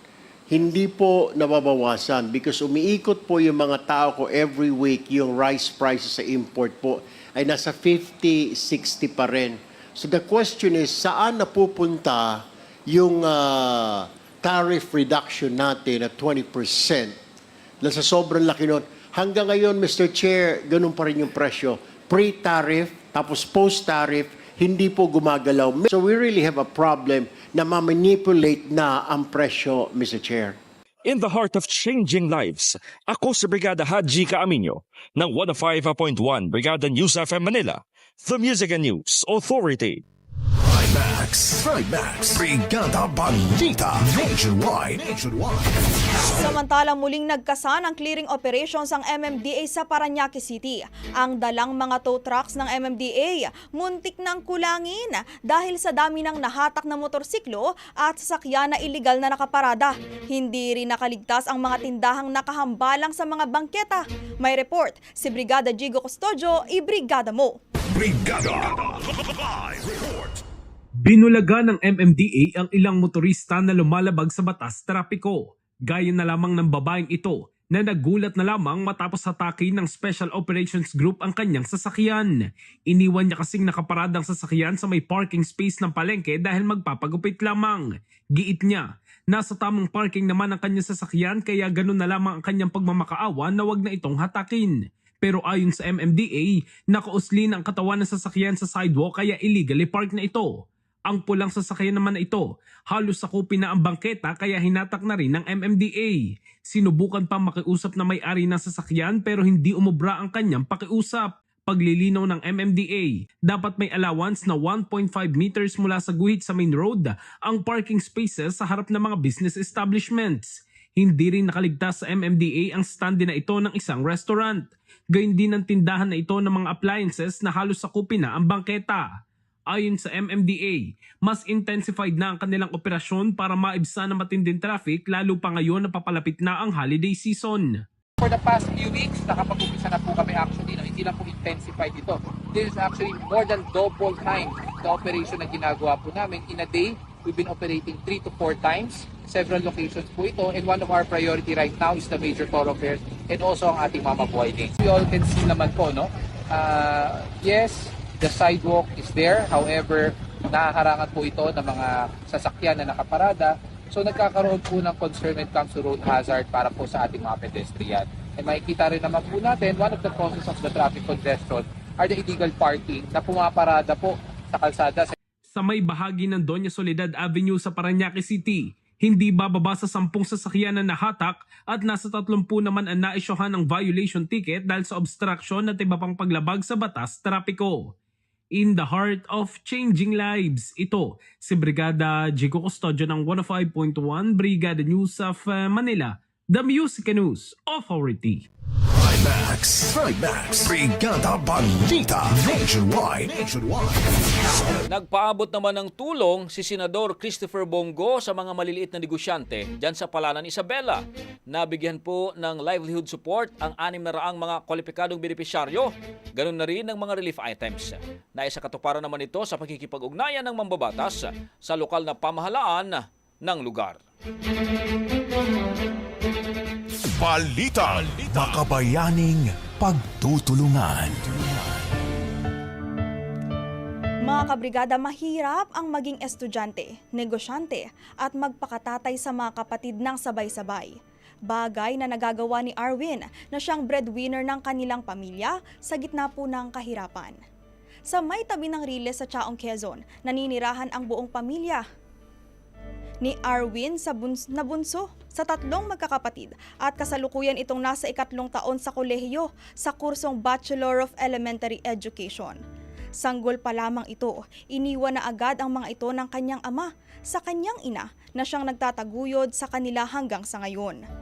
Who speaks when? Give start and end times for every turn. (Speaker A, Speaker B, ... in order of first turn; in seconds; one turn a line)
Speaker A: 0.5-17.2
Speaker A: 17.8-30.6
Speaker B: 31.1-40.0
Speaker C: 40.6-45.7
Speaker D: 46.3-67.6
Speaker C: 67.9-70.4
Speaker E: 71.0-129.1
Speaker E: 129.7-137.8
Speaker F: 138.2-175.2
Speaker E: 175.5-187.9
Speaker E: 188.6-198.4
Speaker C: 198.9-204.1
Speaker G: 204.9-224.0
Speaker C: 227.1-231.7
Speaker D: 234.2-240.9
Speaker D: 241.5-247.4
Speaker D: 248.1-251.8
Speaker D: 253.2-262.6
Speaker D: 263.2-271.0